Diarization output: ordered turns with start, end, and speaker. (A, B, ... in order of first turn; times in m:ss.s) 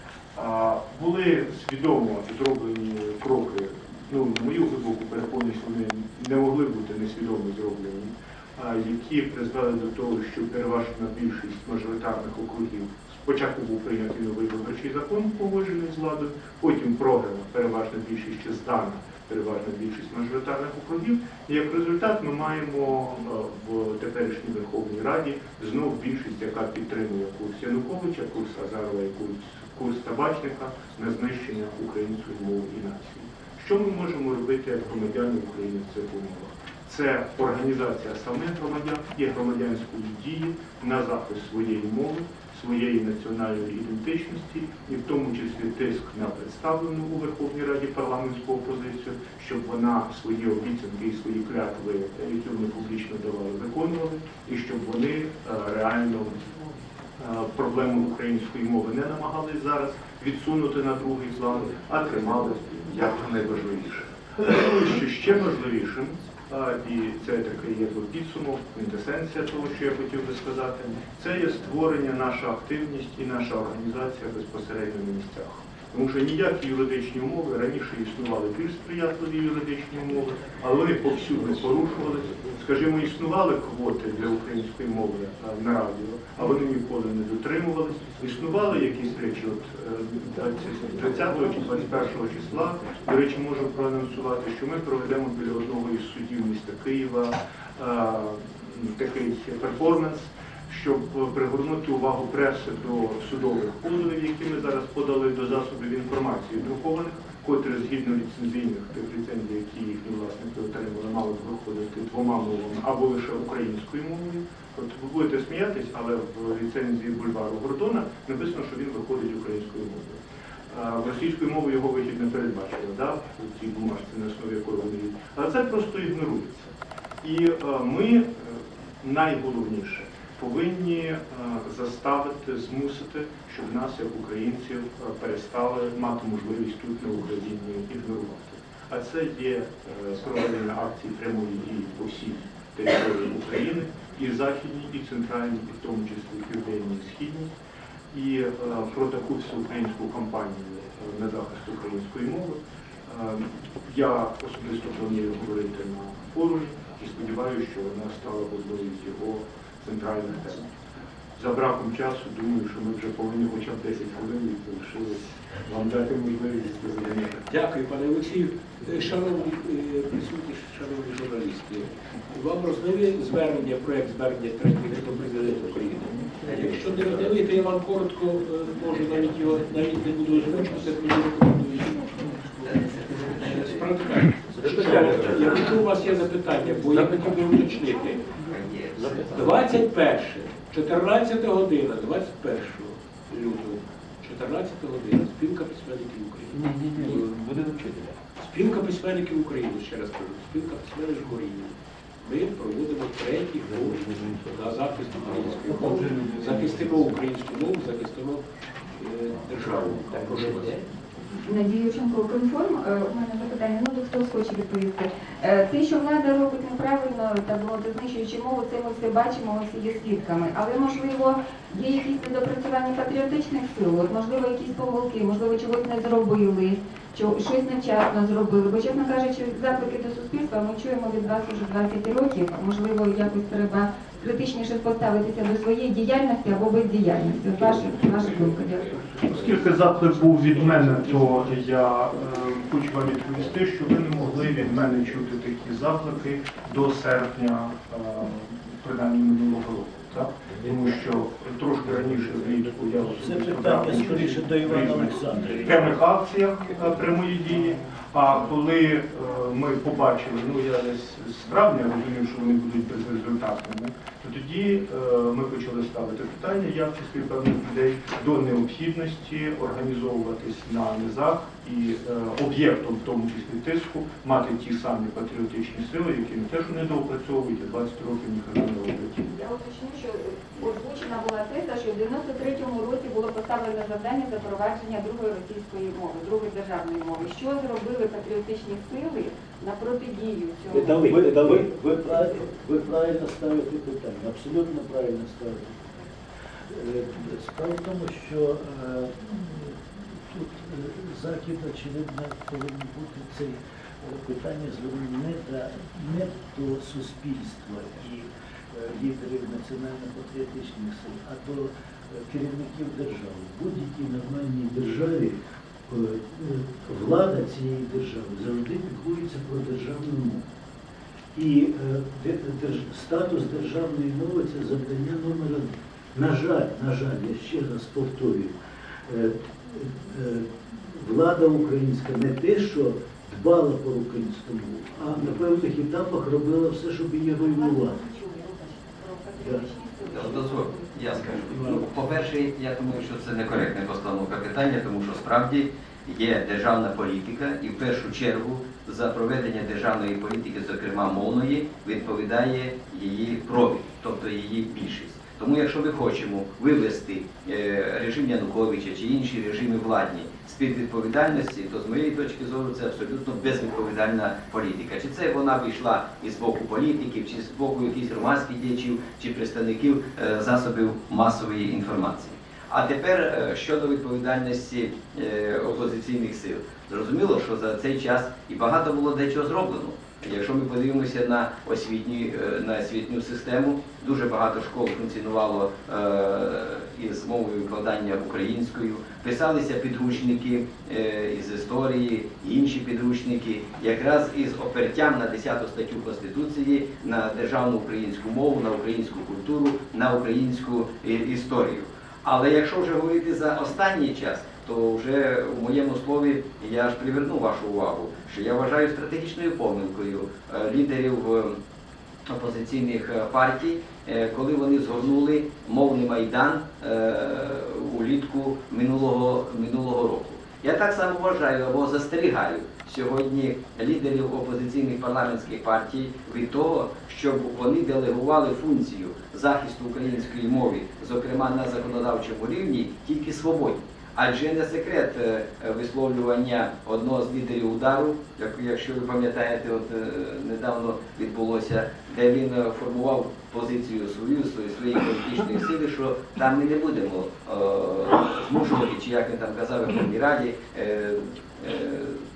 0:00.3-0:56.6 A
0:57.2-2:27.5 A
2:28.1-2:40.7 A
2:41.4-2:47.5 A
2:47.5-3:08.3 B
2:56.5-2:57.3 C
3:02.6-3:03.9 D
3:04.6-3:05.8 C
3:08.4-3:09.6 D
3:09.0-3:09.5 C
3:09.3-3:17.3 B
3:16.5-3:18.2 C
3:18.4-3:28.4 B
3:24.1-3:24.4 C
3:25.3-3:27.1 C
3:29.0-3:30.9 B
3:31.4-3:59.0 E
3:59.3-4:39.3 A
4:13.2-4:15.8 F
4:39.3-4:51.0 E
4:50.7-4:51.7 C
4:51.0-4:56.0 F
4:56.7-5:20.5 F
5:21.4-5:38.0 F
5:37.5-5:41.0 E
5:39.4-5:39.7 F
5:40.1-6:51.6 D
6:52.3-7:32.2 D